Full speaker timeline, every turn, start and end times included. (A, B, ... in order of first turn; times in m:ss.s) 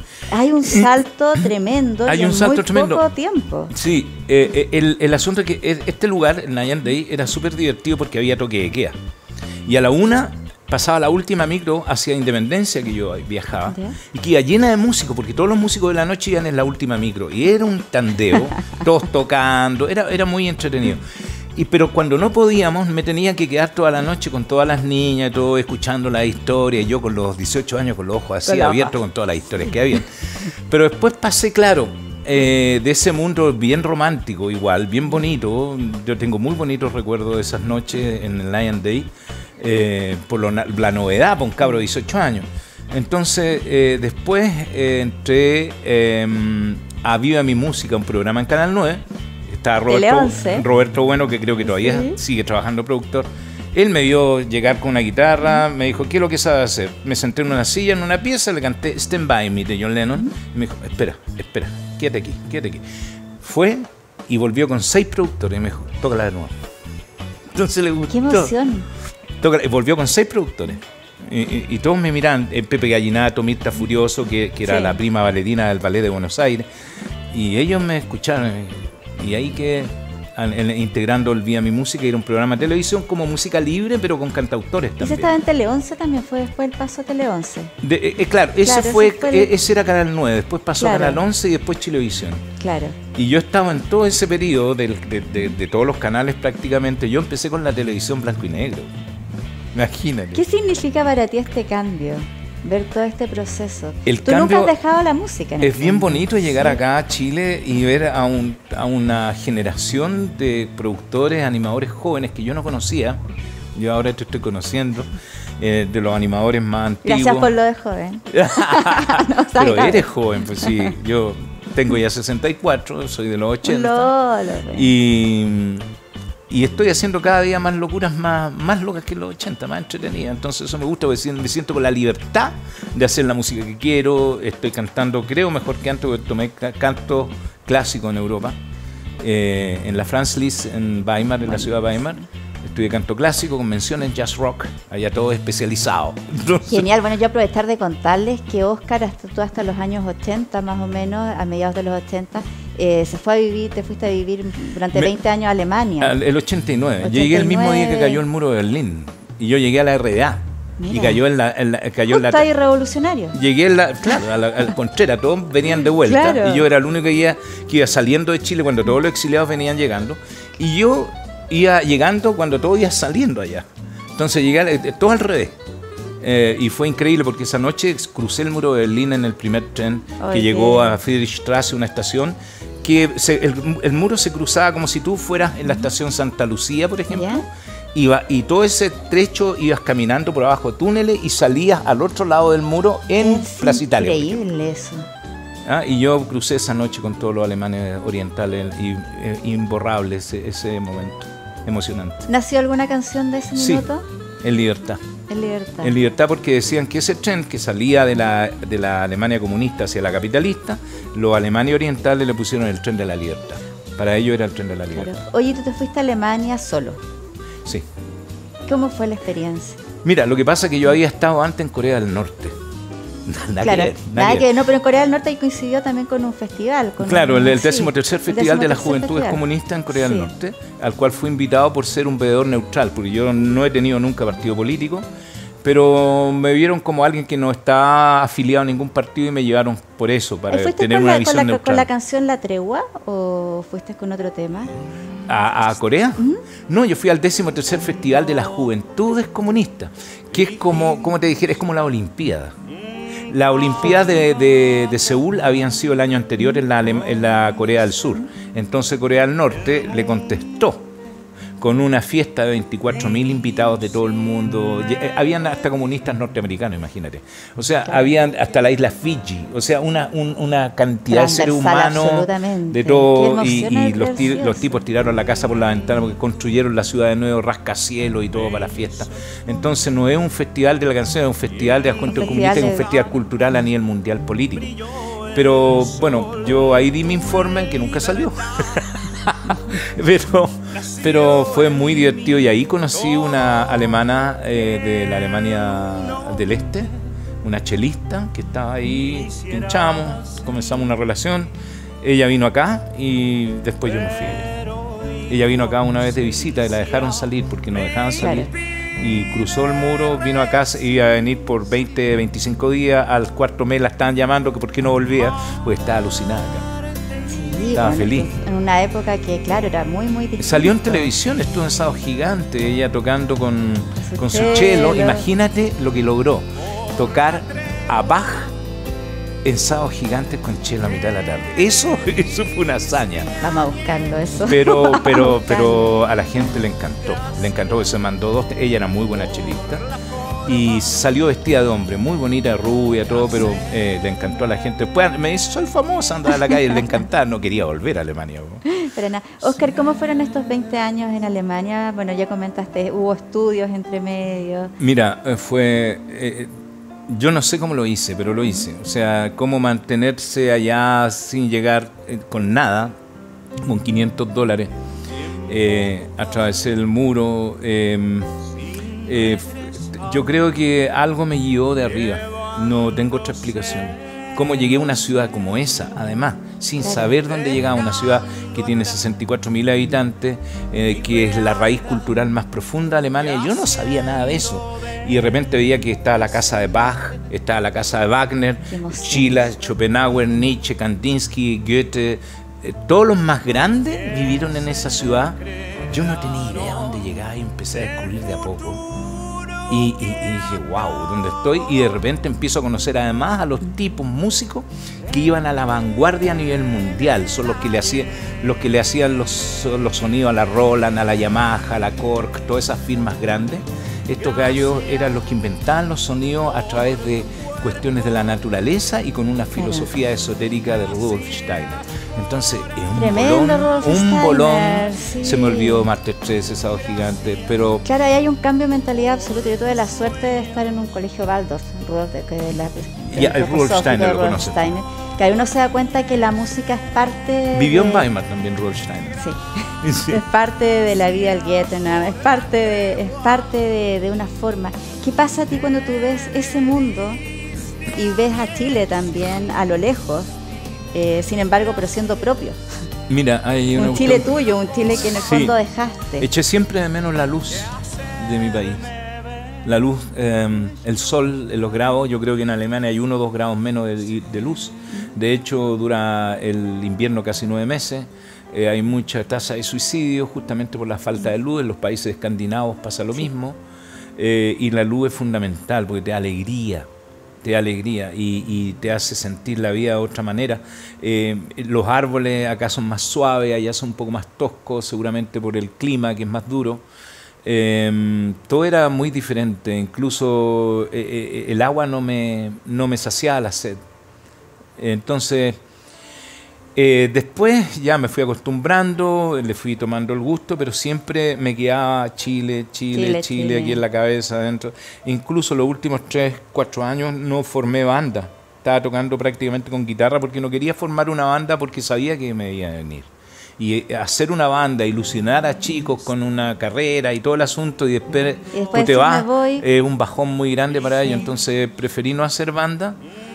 0:00.3-0:03.7 A
0:02.0-0:03.0 B
0:03.7-0:08.9 B
0:09.6-0:21.0 B
0:13.7-0:14.0 A
0:21.5-0:30.1 B
0:28.5-0:28.9 A
0:30.7-1:02.8 B
0:49.9-0:50.6 A
0:51.7-0:52.2 A
1:03.4-1:06.5 B
1:07.5-1:08.5 B
1:08.1-1:08.9 A
1:09.4-1:16.7 B
1:14.6-1:15.0 A
1:17.3-1:25.3 B
1:25.0-1:27.7 A
1:27.8-1:32.4 B
1:28.6-1:29.5 A
1:30.8-1:31.2 A
1:32.6-1:33.0 A
1:33.1-1:38.9 B
1:39.7-1:40.4 B
1:40.3-1:46.8 A
1:44.0-1:44.7 B
1:45.6-1:53.2 B
1:53.7-1:55.1 B
1:55.6-1:57.5 B
1:57.0-2:00.1 A
1:58.3-2:04.1 B
2:00.6-2:00.9 A
2:03.6-2:04.9 A
2:04.7-2:05.8 B
2:06.5-2:18.5 B
2:19.2-2:26.8 B
2:21.4-2:22.2 A
2:26.6-2:36.1 A
2:36.0-2:42.5 B
2:37.0-2:38.2 A
2:40.8-2:41.2 A
2:42.1-2:43.4 A
2:43.3-2:55.6 B
2:45.9-2:46.7 A
2:56.2-3:14.4 B
3:00.2-3:01.0 A
3:07.1-3:07.4 A
3:13.2-3:15.1 A
3:15.6-3:22.2 B
3:22.3-3:24.0 A
3:23.5-3:23.9 B
3:24.4-3:25.0 B
3:25.3-3:25.9 A
3:25.8-3:35.2 B
3:34.9-3:37.0 A
3:38.7-3:39.8 A
3:40.0-3:42.5 B
3:43.2-3:44.5 B
3:43.6-3:49.4 A
3:47.0-3:55.0 B
3:49.9-3:50.3 A
3:55.6-4:01.9 B
4:00.5-4:04.7 A
4:05.3-4:12.5 B
4:13.3-4:20.8 B
4:21.6-4:44.8 B
4:31.1-4:34.7 A
4:42.1-4:42.9 A
4:45.3-5:01.5 B
5:02.0-5:04.5 B
5:05.3-5:16.6 B
5:08.2-5:08.5 A
5:17.3-5:21.0 A
5:17.7-5:18.3 B
5:20.4-5:28.5 B
5:24.0-5:25.2 A
5:29.4-5:33.4 B
5:33.4-5:35.9 A
5:34.5-5:39.8 B
5:40.4-5:48.6 B
5:48.7-5:54.7 A
5:54.8-5:56.5 B
5:57.1-6:02.9 B
6:03.6-6:04.7 B
6:05.5-6:08.3 B
6:09.0-6:35.4 B
6:16.8-6:17.1 A
6:28.7-6:29.4 A
6:35.9-6:38.8 B
6:39.7-7:07.8 B
6:59.6-6:59.9 A
7:02.9-7:05.9 A
7:07.8-7:18.1 A
7:13.1-7:14.7 B
7:17.5-7:19.2 B
7:19.2-7:27.2 A
7:19.8-7:20.2 B
7:27.9-7:30.3 A
7:30.9-7:32.6 A
7:33.1-7:34.3 B
7:33.7-7:36.2 A
7:34.9-7:35.6 B
7:36.2-7:38.8 B
7:39.6-7:53.6 B
7:54.2-7:56.9 B
7:57.4-8:06.8 B
8:07.4-8:13.8 B
8:14.8-8:15.6 B
8:16.8-8:43.0 B
8:22.9-8:23.8 A
8:38.5-8:39.6 A